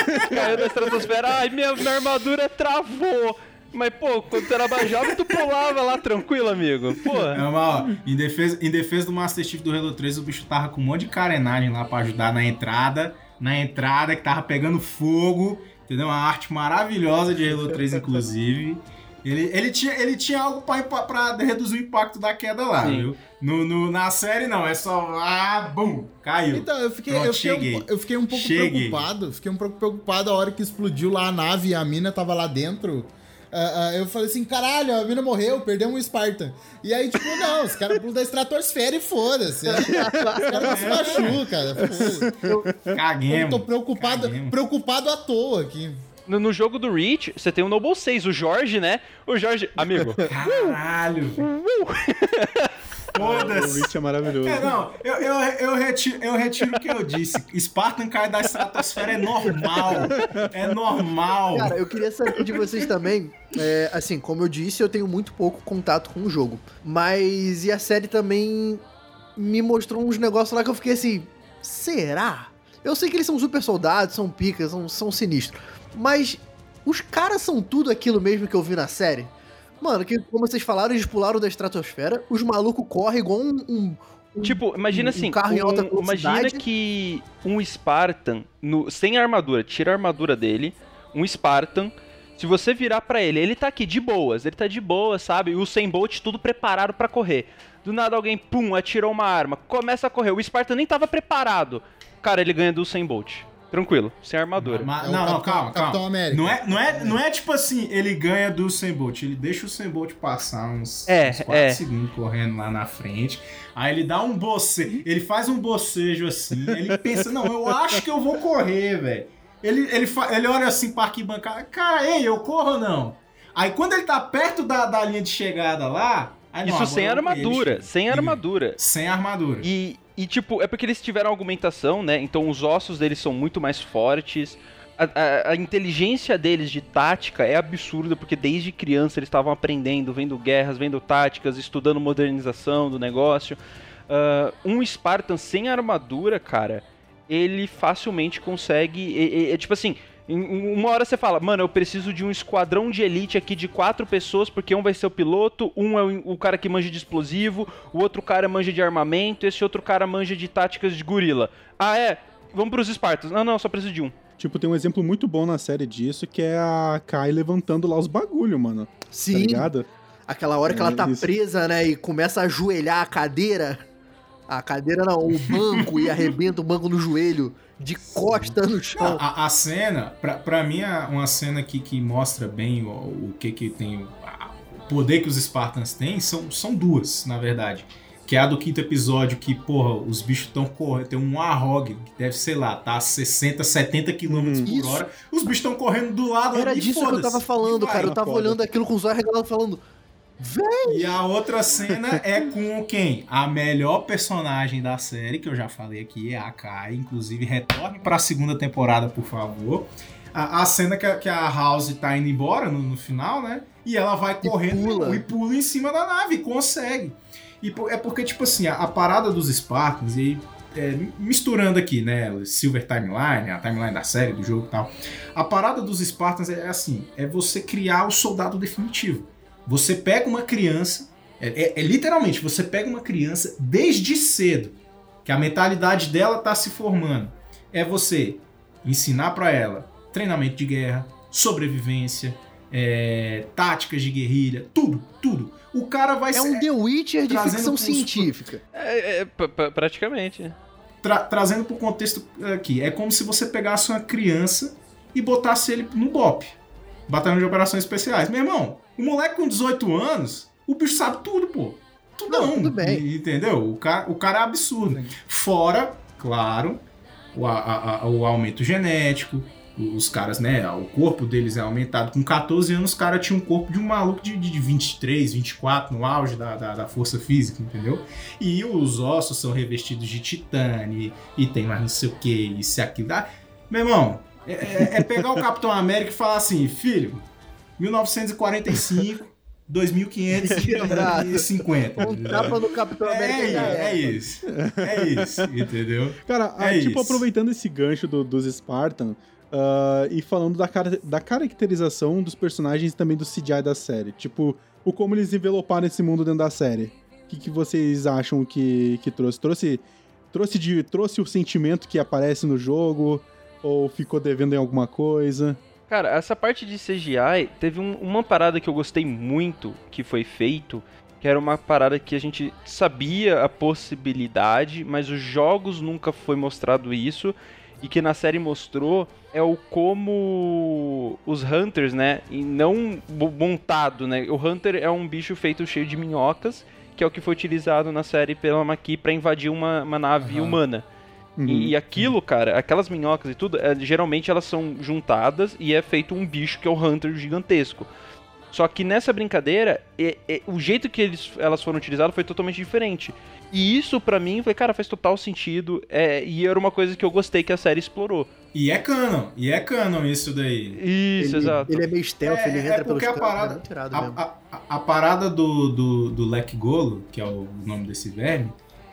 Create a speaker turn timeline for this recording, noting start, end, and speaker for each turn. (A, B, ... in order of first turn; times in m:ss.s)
0:00.2-0:00.5 A
0:00.2-0:07.4 B
0:07.3-0:29.1 C
0:22.8-0:23.1 B
0:26.5-0:42.4 D
0:39.7-0:40.6 E
0:40.0-0:41.1 A
0:40.7-0:41.4 C
0:41.8-0:42.9 A
0:42.4-0:42.7 E
0:42.9-0:44.6 C
0:43.3-0:46.0 D
0:46.3-0:50.7 B
0:50.3-0:51.5 C
0:51.4-0:52.7 B
0:53.1-1:01.8 C
0:53.2-0:54.8 A
0:59.6-1:00.5 A
1:01.5-1:08.8 E
1:09.4-1:26.6 E
1:24.4-1:44.9 B
1:44.6-2:09.7 C
1:45.0-1:47.2 D
1:51.1-1:51.8 B
1:56.7-1:57.7 A
2:06.6-2:08.8 B
2:09.6-2:44.1 B
2:44.4-2:49.9 A
2:49.1-2:49.7 E
2:50.3-2:53.8 E
2:50.6-2:51.3 A
2:54.5-2:59.2 E
2:55.6-2:55.9 C
2:58.2-3:18.2 C
3:14.2-3:14.7 A
3:14.6-3:15.1 E
3:16.5-3:19.8 E
3:18.0-3:18.6 A
3:20.4-3:21.2 E
3:20.8-4:06.7 C
3:34.4-3:35.2 E
4:06.3-4:08.6 E
4:07.2-4:08.3 C
4:08.7-4:10.5 B
4:11.0-4:16.6 C
4:17.1-4:47.2 C
4:22.3-4:23.0 E
4:47.8-4:57.2 C
4:50.4-4:54.2 E
4:54.4-4:55.5 A
4:56.3-5:15.6 A
5:15.9-5:40.8 B
5:40.2-5:40.6 D
5:41.4-5:42.1 A
5:41.4-5:47.9 B
5:48.5-5:58.3 B
5:58.5-6:00.8 C
6:00.8-6:01.7 B
6:01.2-6:04.2 E
6:02.2-6:08.6 C